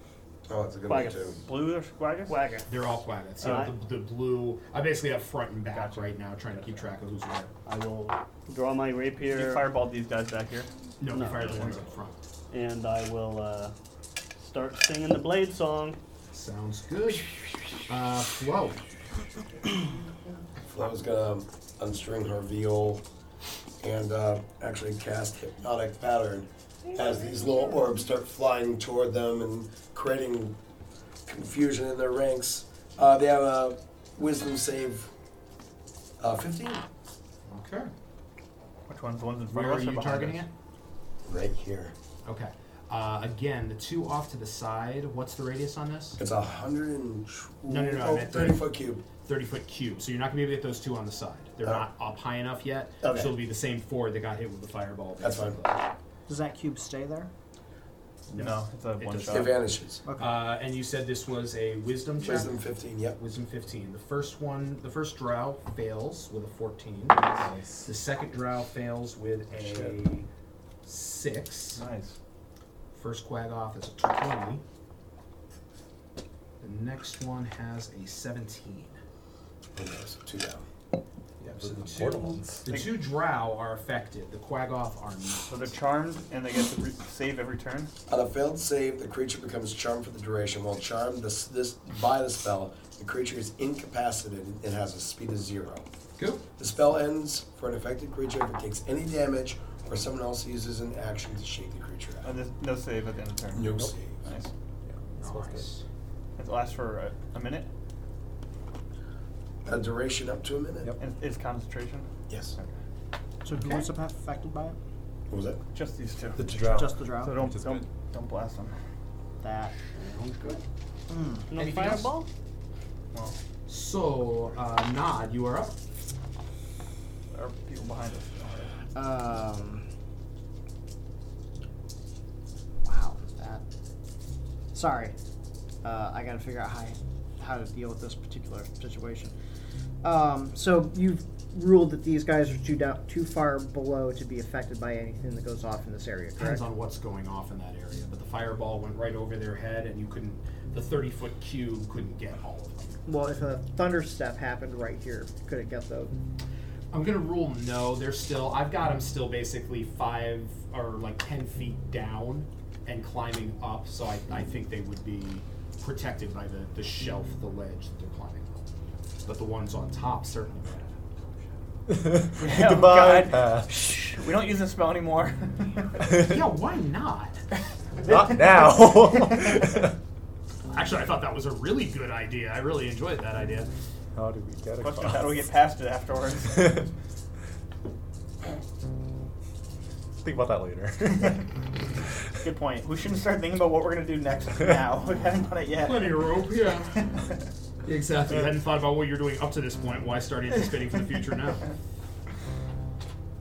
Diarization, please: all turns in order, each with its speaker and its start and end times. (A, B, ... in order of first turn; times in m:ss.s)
0:00.5-0:01.4 A
0:00.8-0:02.7 B
0:01.5-0:02.3 C
0:02.7-0:07.5 D
0:03.4-0:03.8 B
0:05.7-0:06.1 C
0:07.6-0:09.7 B
0:09.2-0:10.7 C
0:11.0-0:12.2 D
0:11.1-0:11.8 B
0:12.5-0:13.7 B
0:14.4-0:16.0 B
0:16.3-0:18.8 D
0:20.7-0:23.0 A
0:23.8-0:30.6 A
0:31.2-0:35.1 A
0:36.2-0:36.8 A
0:37.5-0:37.9 D
0:38.9-0:40.4 C
0:39.5-0:40.5 D
0:41.2-0:41.9 A
0:42.2-0:46.2 D
0:46.2-0:49.0 A
0:47.7-0:48.7 D
0:49.2-0:55.8 D
0:53.0-0:53.3 A
0:55.2-0:55.6 A
0:56.3-0:57.3 E
0:58.3-0:59.5 D
0:58.3-0:59.6 C
0:59.3-1:00.0 A
1:00.0-1:00.4 E
1:00.2-1:02.6 D
1:02.2-1:03.2 A
1:03.2-1:07.3 D
1:07.3-1:07.9 F
1:07.8-1:10.3 D
1:09.6-1:10.0 F
1:10.8-1:11.8 D
1:11.8-1:12.2 C
1:12.9-1:14.6 D
1:16.6-1:19.0 D
1:19.8-1:20.6 A
1:21.4-1:25.7 D
1:21.6-1:22.8 F
1:25.5-1:27.9 C
1:28.1-1:35.8 A
1:36.2-1:36.4 D
1:36.6-1:42.3 A
1:42.2-1:44.5 C
1:43.5-1:44.2 A
1:44.9-1:45.6 F
1:45.2-1:45.8 D
1:46.4-1:47.7 C
1:49.6-1:50.9 A
1:51.0-1:52.7 C
1:52.3-1:52.5 A
1:53.4-1:54.8 E
1:55.3-1:55.6 A
1:55.7-1:56.5 C
1:56.4-1:57.8 F
1:56.6-1:57.3 E
1:57.2-1:58.7 C
1:59.4-1:59.7 E
1:59.8-2:00.6 D
2:01.1-2:01.5 E
2:01.5-2:02.3 B
2:01.6-2:02.1 D
2:03.7-2:05.8 D
2:07.3-2:08.7 C
2:08.9-2:09.9 E
2:12.8-2:13.6 E
2:14.7-2:15.2 E
2:15.8-2:19.3 E
2:20.0-2:26.6 E
2:26.4-2:33.0 D
2:33.0-2:36.2 E
2:36.9-2:48.6 D
2:49.2-2:51.0 D
2:51.9-2:53.7 F
2:52.4-2:56.1 C
2:56.2-2:57.4 D
2:58.0-2:59.9 F
3:00.7-3:03.7 D
3:04.1-3:05.5 F
3:04.8-3:06.8 C
3:06.5-3:06.8 F
3:10.2-3:11.4 F
3:12.4-3:16.4 C
3:15.8-3:17.0 D
3:17.0-3:17.2 C
3:17.8-3:21.7 D